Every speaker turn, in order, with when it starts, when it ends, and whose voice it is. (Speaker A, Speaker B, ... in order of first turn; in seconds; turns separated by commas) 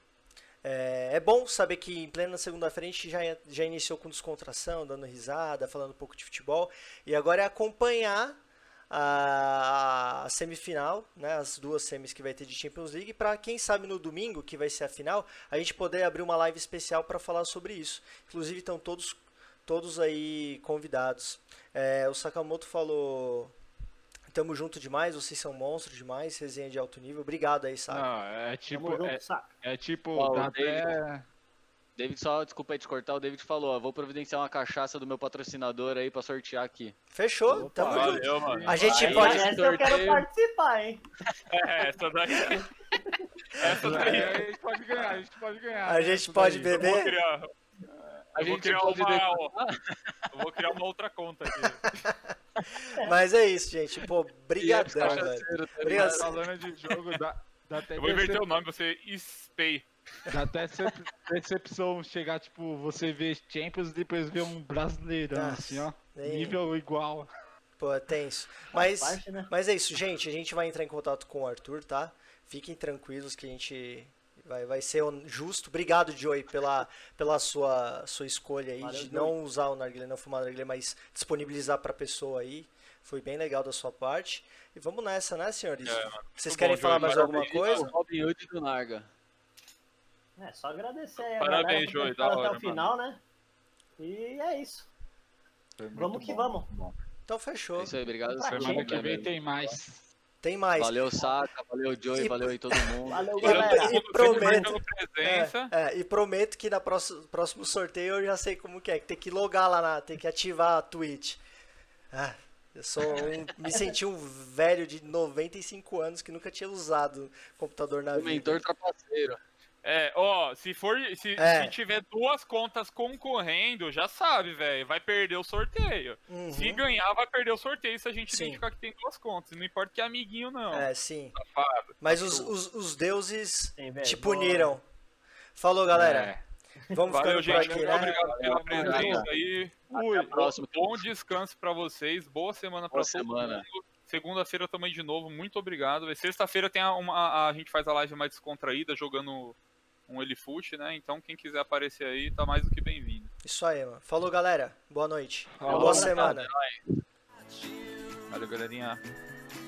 Speaker A: 0.6-8.4, Speaker A: 8.9-23.5, Speaker A: 24.3-28.1, Speaker B: 27.9-31.3, Speaker C: 28.7-29.5, Speaker D: 30.1-30.9, Speaker D: 32.0-37.0, Speaker A: 37.1-39.5, Speaker B: 37.5-39.2, Speaker E: 37.8-39.3, Speaker C: 38.9-41.1, Speaker D: 38.9-40.3, Speaker E: 41.5-43.0, Speaker C: 42.3-44.3, Speaker E: 43.5-44.5, Speaker B: 43.7-46.9, Speaker A: 45.9-47.2, Speaker E: 46.7-47.5, Speaker B: 47.9-48.2, Speaker E: 48.3-49.5, Speaker D: 48.4-50.3, Speaker E: 50.3-51.9, Speaker A: 52.0-56.4, Speaker D: 54.6-56.4, Speaker B: 55.0-55.3, Speaker B: 55.8-58.4, Speaker E: 58.0-59.9, Speaker B: 60.3-67.3, Speaker A: 65.3-66.6, Speaker A: 67.8-87.9, Speaker C: 68.8-69.5, Speaker C: 78.8-79.3, Speaker E: 85.8-87.9, Speaker D: 86.9-89.1, Speaker C: 90.4-93.2, Speaker E: 91.2-92.9, Speaker C: 94.0-94.9, Speaker B: 95.8-97.0, Speaker C: 96.0-96.7, Speaker A: 97.3-97.9, Speaker D: 97.8-99.7, Speaker C: 98.3-99.2, Speaker B: 98.4-100.0, Speaker A: 100.4-101.0, Speaker D: 100.8-103.8, Speaker A: 102.2-111.4, Speaker C: 103.0-104.7, Speaker E: 103.4-105.7, Speaker A: 112.1-118.6, Speaker D: 118.2-119.4, Speaker E: 119.8-132.5, Speaker A: 121.4-121.8, Speaker A: 126.3-126.8, Speaker A: 128.3-128.6, Speaker A: 130.7-131.4, Speaker A: 132.0-134.8, Speaker C: 133.8-134.7, Speaker A: 135.6-136.3, Speaker B: 135.9-136.4, Speaker A: 136.9-138.1, Speaker E: 137.1-149.6, Speaker B: 137.4-139.3, Speaker D: 137.8-139.3, Speaker C: 138.9-139.2, Speaker B: 139.9-140.3, Speaker D: 140.2-141.1, Speaker D: 142.9-143.7, Speaker E: 150.1-153.3, Speaker A: 153.4-156.5, Speaker B: 155.5-156.3, Speaker C: 155.7-156.4, Speaker D: 155.7-156.8, Speaker E: 158.3-159.0